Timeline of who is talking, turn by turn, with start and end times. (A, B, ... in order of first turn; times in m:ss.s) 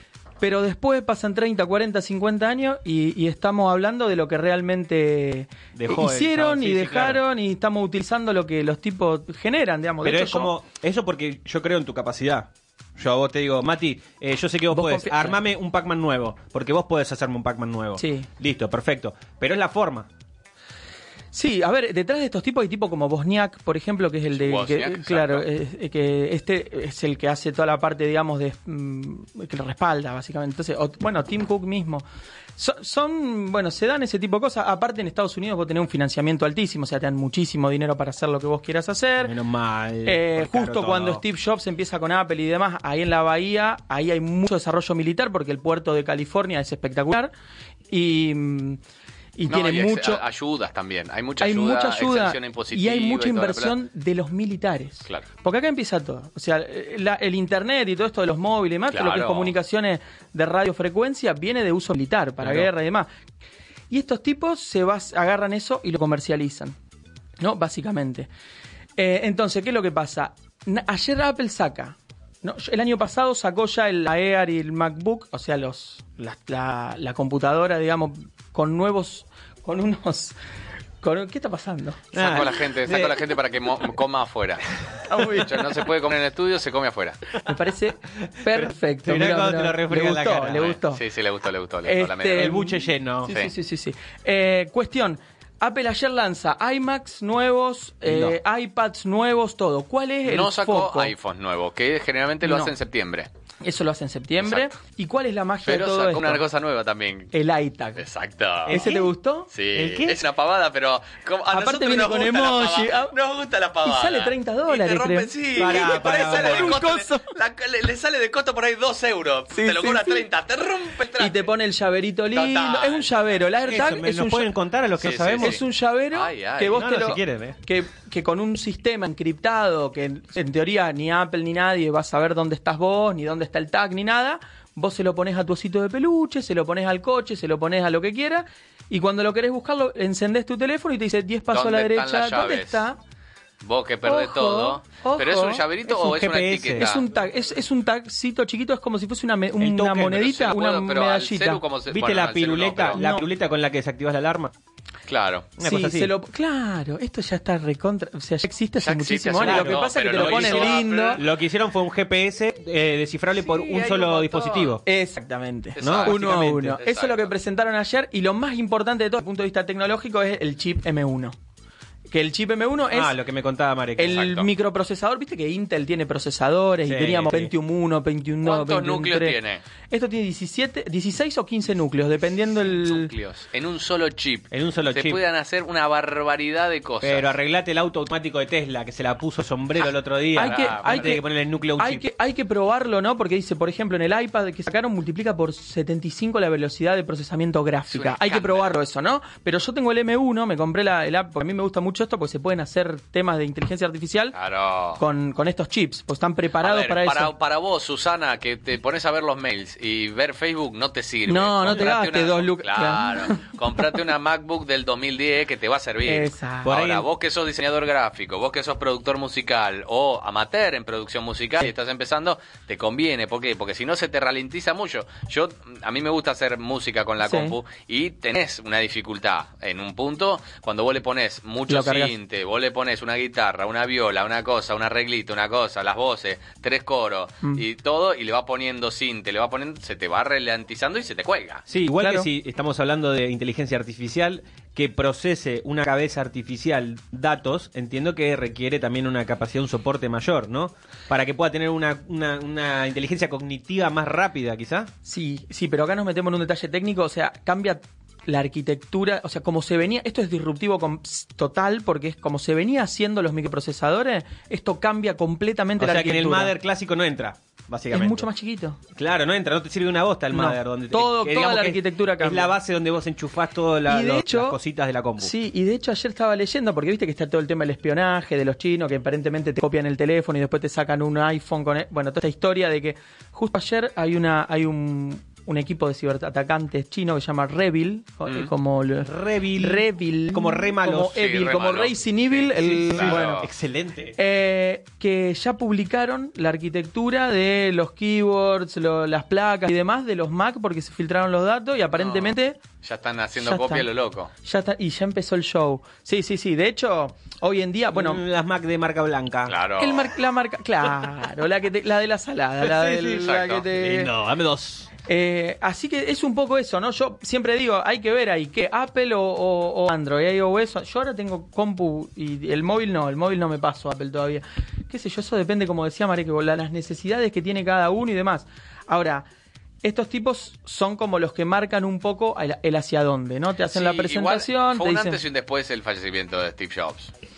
0:00.4-0:10.5 A
0:05.7-0:07.2 B
0:10.0-0:20.1 B
0:14.7-0:15.4 A
0:18.0-0:18.3 A
0:21.3-0:32.0 A
0:24.3-0:25.4 C
0:32.6-0:39.3 A
0:39.2-0:41.2 B
0:40.0-0:47.3 A
0:47.9-0:48.8 A
0:49.4-0:50.2 A
0:49.5-0:53.8 C
0:51.4-1:03.1 A
0:58.9-0:59.5 C
1:02.4-1:02.7 B
1:03.9-1:06.8 A
1:07.4-1:08.3 A
1:09.0-1:20.3 A
1:21.0-1:22.1 A
1:22.1-1:24.6 C
1:22.1-1:23.3 B
1:25.1-1:25.7 A
1:25.4-1:27.3 C
1:27.4-1:31.0 A
1:28.4-1:30.8 B
1:30.8-1:32.6 C
1:31.8-1:41.1 A
1:32.3-1:33.3 B
1:38.0-1:38.4 B
1:40.2-1:43.3 C
1:42.4-1:42.7 A
1:43.6-1:46.4 A
1:44.4-1:44.7 C
1:45.6-1:47.3 C
1:47.3-1:48.0 A
1:48.0-1:48.9 C
1:48.6-1:49.1 B
1:48.7-1:49.5 A
1:49.5-2:01.5 C
1:49.7-1:50.2 B
1:51.5-1:53.1 A
1:53.8-1:57.3 A
1:55.6-1:56.8 B
1:59.5-2:00.2 A
2:01.2-2:04.5 A
2:02.3-2:03.2 C
2:03.6-2:05.6 B
2:05.0-2:05.6 C
2:05.4-2:23.0 A
2:06.1-2:06.9 C
2:06.7-2:07.6 B
2:21.5-2:22.8 C
2:23.6-2:27.0 C
2:24.0-2:25.6 A
2:25.9-2:26.8 B
2:26.8-2:31.6 A
2:29.6-2:30.4 B
2:30.2-2:33.0 C
2:31.9-2:34.5 B
2:32.9-2:33.2 A
2:35.1-2:35.5 C
2:35.6-2:36.1 B
2:35.6-2:41.2 A
2:38.8-2:41.2 C
2:39.4-2:44.8 B
2:43.4-2:44.8 C
2:44.8-2:51.3 A
2:45.8-2:47.2 C
2:45.8-2:46.8 B
2:52.1-2:53.1 A
2:52.9-2:54.2 B
2:54.0-2:59.4 A
2:54.0-2:54.4 C
2:56.8-2:57.5 B
2:58.4-2:59.6 C
2:59.9-3:03.1 A
3:02.8-3:07.3 C
3:04.5-3:05.2 B
3:07.0-3:12.0 B
3:10.4-3:11.2 A
3:10.4-3:11.1 C
3:11.8-3:24.4 A
3:17.9-3:18.7 C
3:24.3-3:25.0 C
3:25.0-3:27.3 A
3:26.6-4:01.6 C
3:31.2-3:33.5 A
3:36.0-3:36.7 A
3:36.6-3:37.1 B
3:47.2-3:47.5 A
3:51.7-3:52.1 A
4:01.7-4:14.9 B
4:02.0-4:02.3 A
4:15.0-4:26.5 A
4:25.8-4:28.3 B
4:27.9-4:28.8 A
4:28.9-4:35.3 B
4:30.3-4:32.6 A
4:33.9-4:34.6 A
4:35.2-4:53.4 A
4:49.0-4:51.3 B
4:51.0-4:53.5 C
4:52.5-4:54.2 B
4:54.2-5:02.6 A
5:02.0-5:04.3 C
5:03.4-5:03.8 A
5:04.4-5:08.2 A
5:07.9-5:09.6 B
5:09.5-5:10.1 C
5:09.8-5:14.1 A
5:12.6-5:14.9 B
5:13.2-5:13.6 C
5:15.1-5:29.2 A
5:29.8-5:35.2 A
5:33.7-5:37.1 C